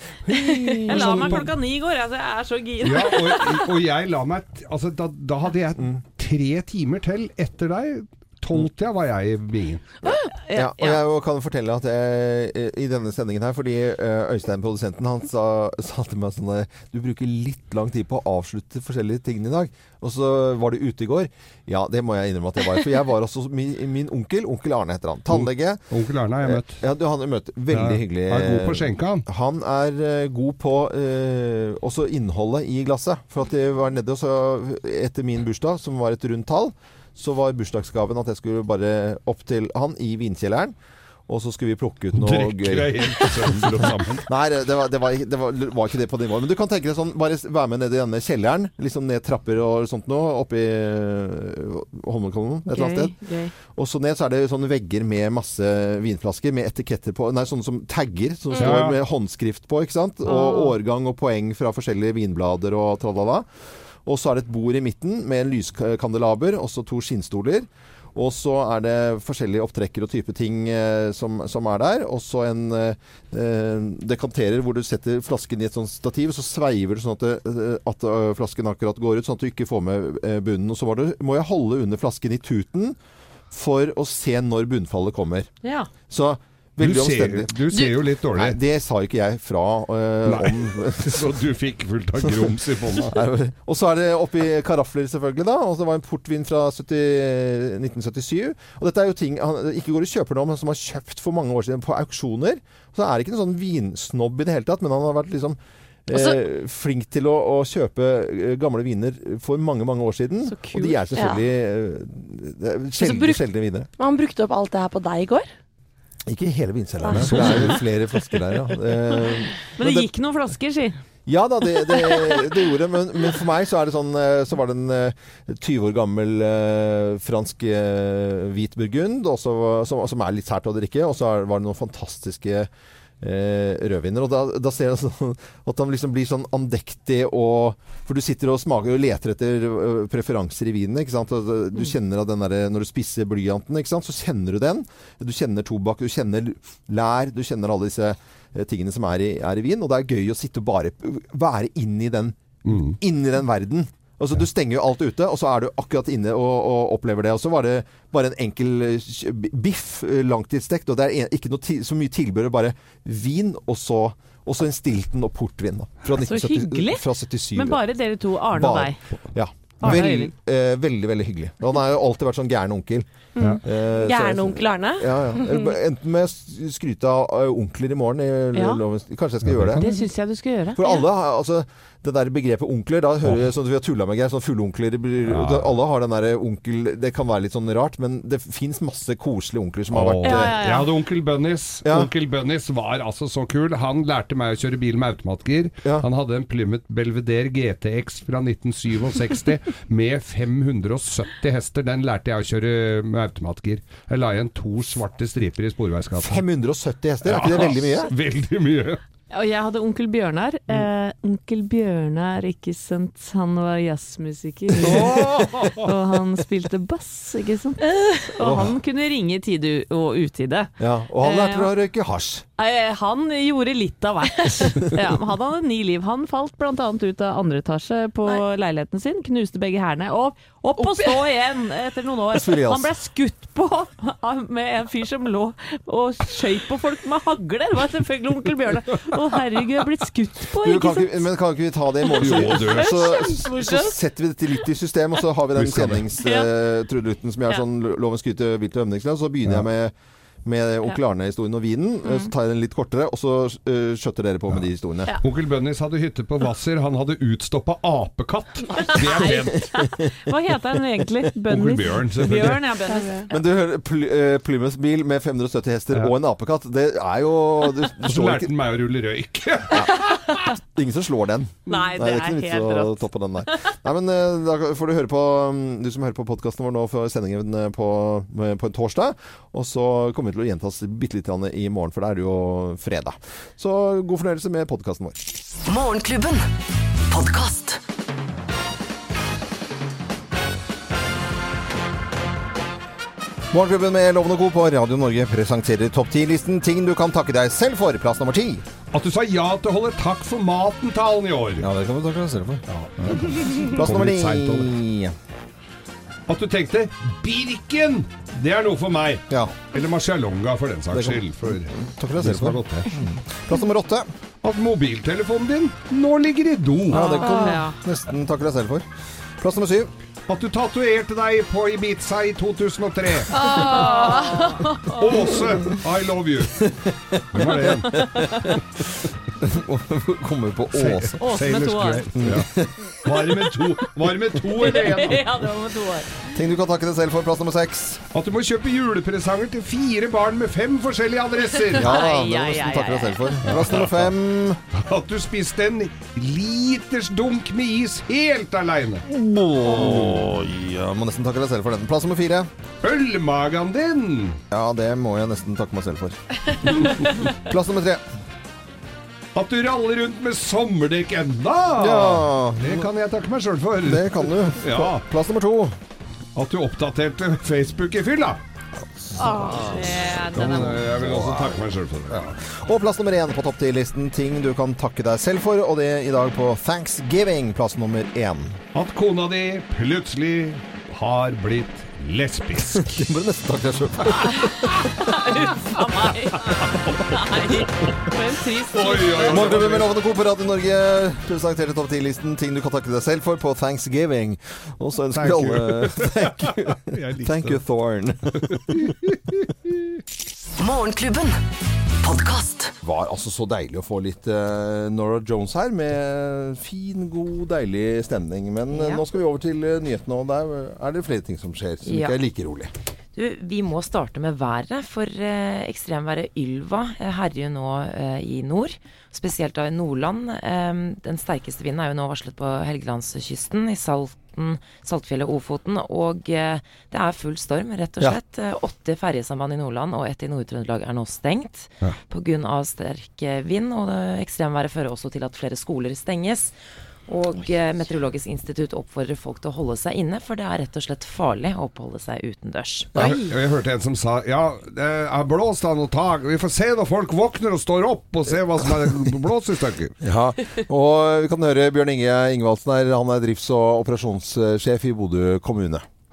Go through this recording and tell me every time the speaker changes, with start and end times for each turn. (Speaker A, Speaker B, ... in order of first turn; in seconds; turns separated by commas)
Speaker A: 0.2-1.5, Speaker B: 0.9-3.6, Speaker C: 1.0-1.5, Speaker C: 2.8-9.9, Speaker B: 10.0-11.0, Speaker A: 10.5-25.8, Speaker C: 25.3-26.8, Speaker A: 26.4-40.7, Speaker C: 27.7-29.2, Speaker A: 41.3-63.5, Speaker C: 42.1-44.2, Speaker B: 52.7-53.5, Speaker C: 58.6-59.0, Speaker B: 60.2-60.8, Speaker A: 64.0-83.0, Speaker A: 83.5-85.5, Speaker B: 85.6-85.9, Speaker A: 86.1-87.5, Speaker C: 86.8-88.6, Speaker A: 88.3-91.4, Speaker C: 90.2-93.2, Speaker A: 92.2-113.9, Speaker B: 110.5-111.2, Speaker D: 111.2-111.4, Speaker D: 113.0-113.4, Speaker D: 114.0-115.5, Speaker A: 116.3-120.1, Speaker D: 117.0-117.5, Speaker C: 117.1-117.8, Speaker B: 119.8-121.0, Speaker A: 121.2-132.7, Speaker A: 133.2-167.8, Speaker C: 152.7-153.0, Speaker B: 166.1-169.0, Speaker A: 168.5-173.1, Speaker B: 169.8-170.3, Speaker D: 173.4-175.7, Speaker A: 173.6-179.8, Speaker B: 178.5-178.8, Speaker C: 179.4-180.0, Speaker B: 179.8-180.8, Speaker A: 180.7-190.5, Speaker C: 185.2-185.7, Speaker C: 189.9-206.4, Speaker B: 190.2-190.9, Speaker A: 191.8-192.1, Speaker A: 206.2-208.1, Speaker C: 207.2-209.0, Speaker B: 209.3-215.2, Speaker C: 214.8-215.9, Speaker A: 214.8-215.5, Speaker B: 215.8-221.7, Speaker A: 218.4-218.7, Speaker A: 220.8-222.4, Speaker B: 222.6-241.2, Speaker A: 232.3-232.9, Speaker A: 240.6-249.9, Speaker C: 242.2-243.0, Speaker B: 243.2-243.7, Speaker C: 245.5-246.0, Speaker A: 250.4-255.1, Speaker C: 255.2-259.8, Speaker B: 258.8-263.3, Speaker C: 261.5-262.7, Speaker D: 262.9-263.2, Speaker A: 263.3-268.5, Speaker C: 268.0-270.4, Speaker A: 269.7-285.2, Speaker B: 271.7-273.0, Speaker A: 293.5-298.6, Speaker C: 298.9-301.7, Speaker A: 301.6-305.1, Speaker C: 302.7-304.7, Speaker C: 306.3-312.9, Speaker A: 309.3-309.5, Speaker A: 310.9-314.1, Speaker C: 314.4-317.2, Speaker A: 316.9-318.9, Speaker B: 316.9-317.8, Speaker A: 319.4-319.9, Speaker C: 320.3-323.4, Speaker B: 323.3-325.3, Speaker D: 323.4-324.4, Speaker C: 324.9-326.7, Speaker A: 325.4-325.7, Speaker A: 326.6-328.6, Speaker C: 327.3-328.6, Speaker B: 328.2-328.5, Speaker A: 329.4-331.2, Speaker C: 330.7-335.4, Speaker B: 331.2-332.1, Speaker A: 332.1-333.1, Speaker B: 334.6-336.1, Speaker A: 336.2-338.0, Speaker C: 338.1-341.9, Speaker B: 341.7-343.4, Speaker A: 341.7-344.6, Speaker C: 343.4-344.1, Speaker C: 344.7-349.0, Speaker A: 349.1-352.5, Speaker C: 349.7-350.3, Speaker C: 352.8-354.4, Speaker A: 354.5-358.0, Speaker C: 356.7-357.1, Speaker C: 359.3-365.0, Speaker A: 361.8-362.9, Speaker A: 363.8-365.8, Speaker C: 366.4-368.4, Speaker A: 368.8-371.6, Speaker B: 369.2-370.8, Speaker C: 370.3-372.4, Speaker A: 372.4-378.6, Speaker C: 378.7-383.0, Speaker A: 382.8-384.8, Speaker B: 384.6-389.4, Speaker C: 386.4-388.0, Speaker C: 388.7-389.9, Speaker A: 389.2-398.9, Speaker C: 395.1-397.6, Speaker C: 398.4-399.8, Speaker A: 402.8-412.7, Speaker E: 408.7-409.0, Speaker E: 411.9-412.2, Speaker E: 413.1-436.5, Speaker E: 437.1-443.0, Speaker A: 442.9-443.2, Speaker C: 443.0-449.9, Speaker A: 450.0-455.8